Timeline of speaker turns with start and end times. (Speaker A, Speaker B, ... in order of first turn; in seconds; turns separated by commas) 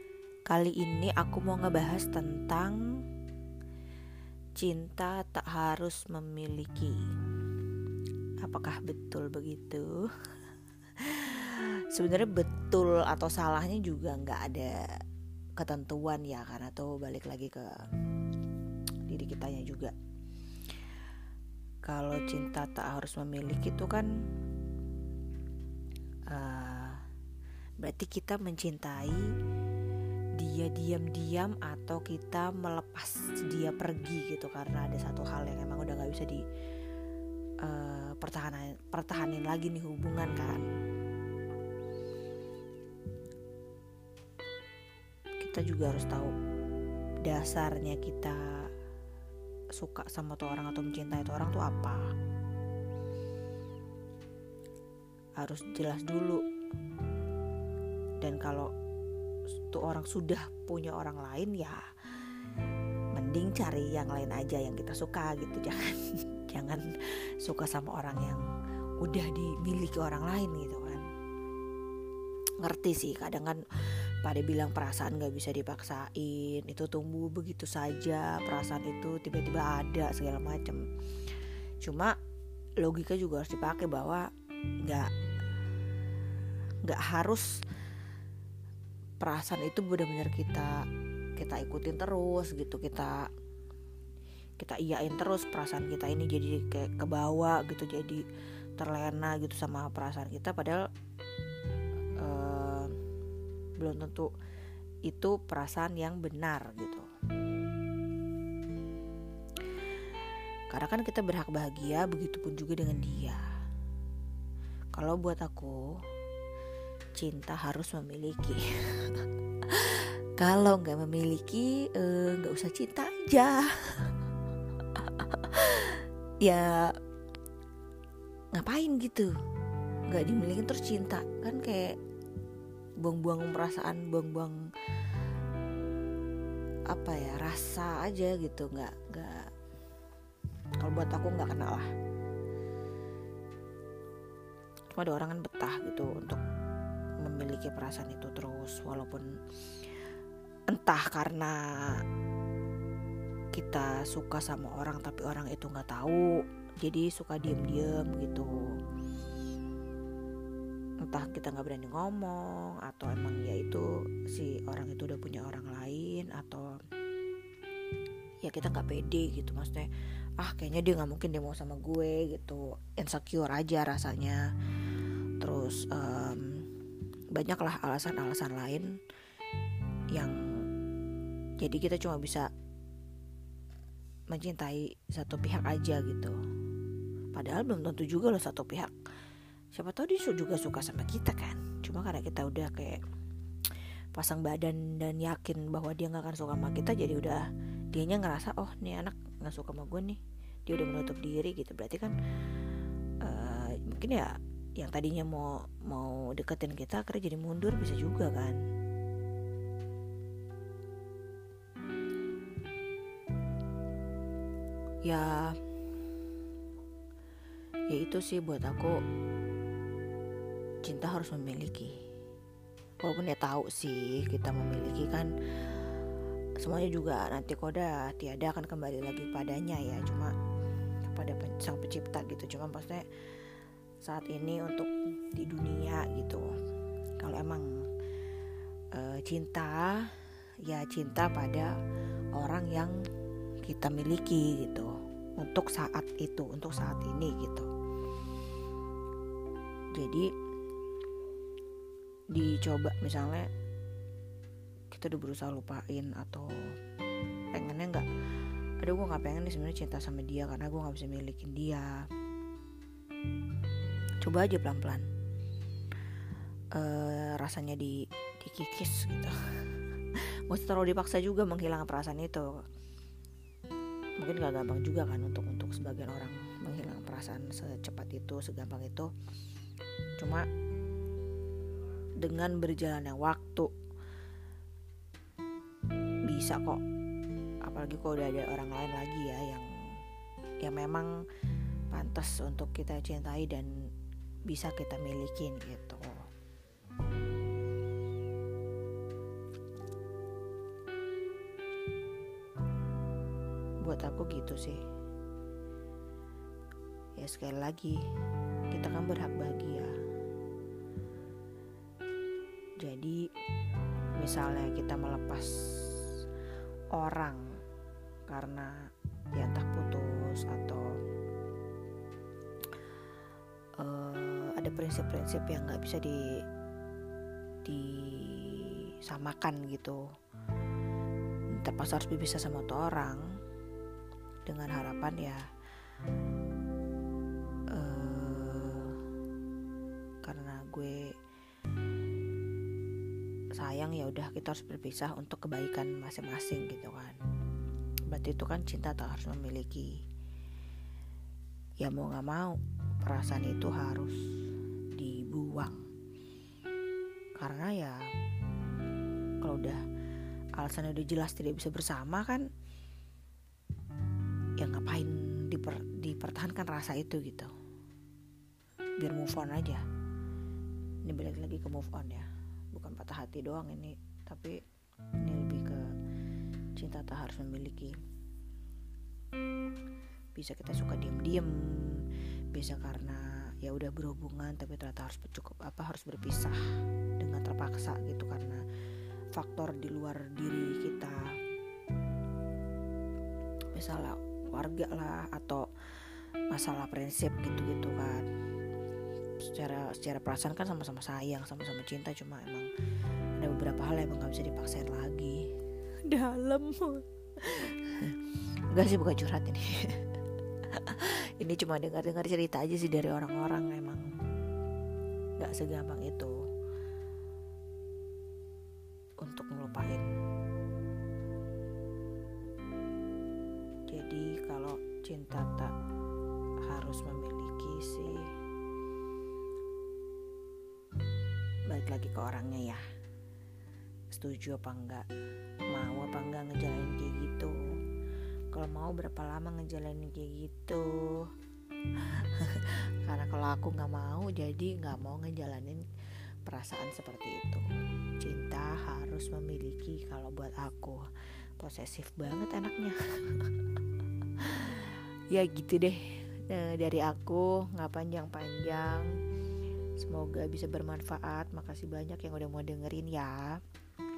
Speaker A: 0.5-2.8, Speaker A: 4.6-7.0, Speaker A: 8.4-10.1, Speaker A: 11.0-14.8, Speaker A: 15.6-17.8, Speaker A: 19.1-19.9, Speaker A: 21.9-24.1, Speaker A: 26.3-27.0, Speaker A: 27.8-29.3, Speaker A: 30.4-36.4, Speaker A: 37.6-40.6, Speaker A: 45.4-46.3, Speaker A: 47.2-48.7, Speaker A: 49.8-52.1, Speaker A: 55.4-56.4, Speaker A: 58.2-58.7, Speaker A: 59.7-62.3, Speaker A: 63.1-68.4, Speaker A: 69.0-71.0, Speaker A: 72.6-82.2, Speaker A: 82.8-84.3, Speaker A: 84.8-85.1, Speaker A: 86.8-87.6, Speaker A: 89.2-90.8, Speaker A: 91.4-93.3, Speaker A: 94.6-98.2, Speaker A: 98.8-100.9, Speaker A: 102.2-103.0, Speaker A: 103.8-104.3, Speaker A: 105.1-107.1, Speaker A: 110.7-113.4, Speaker A: 114.9-116.0, Speaker A: 117.1-124.2, Speaker A: 124.9-126.9, Speaker A: 128.5-129.3, Speaker A: 130.1-131.9, Speaker A: 133.0-134.7, Speaker A: 136.9-139.5, Speaker A: 140.8-141.9, Speaker A: 144.9-146.4, Speaker A: 147.2-150.1, Speaker A: 150.7-152.0, Speaker A: 153.5-158.6, Speaker A: 161.0-166.7, Speaker A: 168.4-174.5, Speaker A: 175.4-176.7, Speaker A: 177.3-178.9, Speaker A: 180.1-180.4, Speaker A: 181.6-182.5, Speaker A: 184.3-186.3, Speaker A: 187.3-188.9, Speaker A: 189.7-193.0, Speaker A: 194.1-202.1, Speaker A: 203.2-208.6, Speaker A: 215.0-215.6, Speaker A: 217.9-219.0, Speaker A: 220.8-221.9, Speaker A: 223.0-225.9, Speaker A: 226.6-230.3, Speaker A: 231.0-236.5, Speaker A: 237.2-237.7, Speaker A: 238.9-241.7, Speaker A: 242.3-243.0, Speaker A: 243.6-247.7, Speaker A: 249.9-250.3, Speaker A: 252.3-253.5, Speaker A: 254.9-256.5, Speaker A: 257.5-258.1, Speaker A: 258.8-262.1, Speaker A: 264.2-265.1, Speaker A: 266.7-272.6, Speaker A: 274.2-279.1, Speaker A: 280.2-280.5, Speaker A: 282.2-283.7, Speaker A: 286.3-286.8, Speaker A: 287.6-289.7, Speaker A: 290.6-291.1, Speaker A: 291.9-293.7, Speaker A: 294.5-296.2, Speaker A: 303.8-304.8, Speaker A: 307.2-308.0, Speaker A: 308.7-309.9, Speaker A: 312.8-313.3, Speaker A: 314.2-316.2, Speaker A: 316.9-317.6, Speaker A: 318.3-320.9, Speaker A: 323.8-326.4, Speaker A: 327.6-330.0, Speaker A: 331.5-333.3, Speaker A: 334.4-335.4, Speaker A: 337.7-339.1, Speaker A: 340.2-341.1, Speaker A: 343.6-347.2, Speaker A: 348.1-349.9, Speaker A: 351.8-354.2, Speaker A: 354.9-355.8, Speaker A: 357.4-358.0, Speaker A: 359.4-359.8, Speaker A: 360.6-362.4, Speaker A: 364.6-367.5, Speaker A: 369.0-369.8, Speaker A: 371.0-374.6, Speaker A: 375.2-375.8, Speaker A: 376.8-378.0, Speaker A: 380.3-386.6, Speaker A: 387.2-388.6, Speaker A: 389.3-391.3, Speaker A: 393.7-398.2, Speaker A: 399.4-402.7, Speaker A: 403.4-405.4, Speaker A: 406.0-410.1, Speaker A: 410.6-414.1, Speaker A: 415.4-416.4, Speaker A: 419.2-420.1, Speaker A: 423.9-425.7, Speaker A: 426.6-428.2, Speaker A: 431.7-432.8, Speaker A: 434.1-435.1, Speaker A: 435.7-437.6, Speaker A: 438.5-441.3, Speaker A: 442.0-445.9, Speaker A: 446.4-447.6, Speaker A: 448.2-451.0, Speaker A: 451.6-453.6, Speaker A: 454.4-459.1, Speaker A: 460.0-463.6